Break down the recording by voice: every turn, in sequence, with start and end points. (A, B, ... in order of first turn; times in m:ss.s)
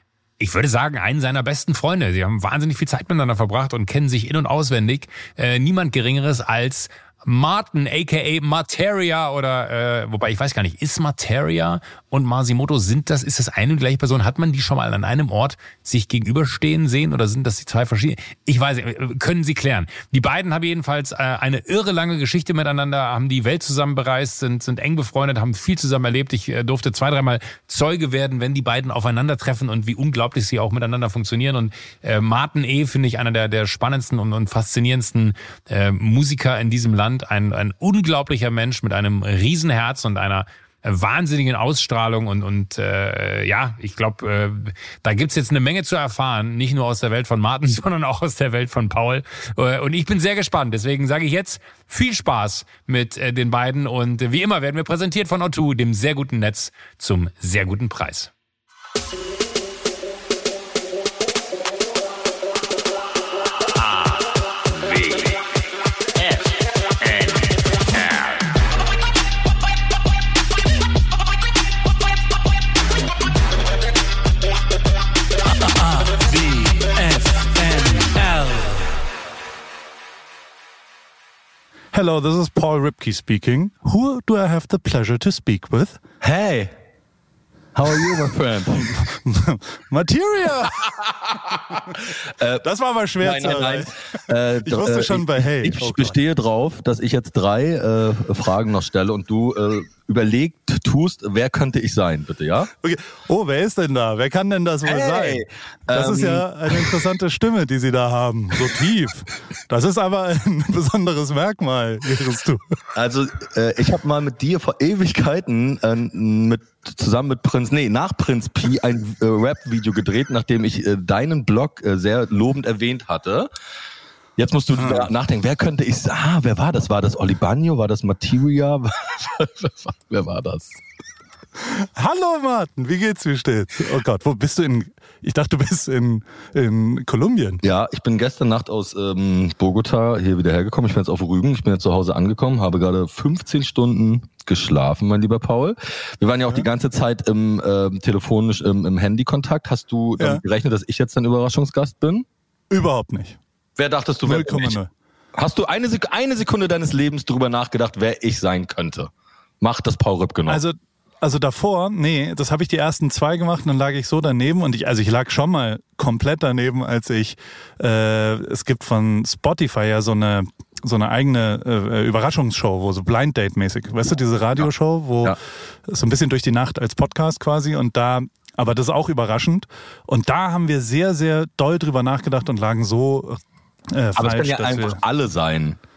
0:00.4-0:58.3 A
1:03.8-1:05.4 A
1:06.2-1:06.5 A
1:07.0-1:08.4 A
1:15.4-1:18.9 B
1:21.9-1:26.0 B
1:26.2-1:26.8 C
1:27.7-1:28.9 C
1:28.8-1:30.8 B
1:30.8-1:32.6 C
1:32.6-1:33.9 B
1:33.2-1:42.7 C
1:34.6-1:36.1 B
1:42.8-1:52.6 B
1:44.8-1:47.0 C
1:52.9-2:03.5 C
2:04.4-2:10.8 C
2:04.8-2:05.1 B
2:11.6-2:17.6 B
2:17.6-2:32.2 C
2:32.7-2:33.4 B
2:33.8-2:34.8 C
2:34.2-2:34.9 B
2:35.3-2:40.6 C
2:40.5-2:55.4 B
2:55.9-3:03.4 B
3:03.9-3:05.0 B
3:04.2-3:05.8 C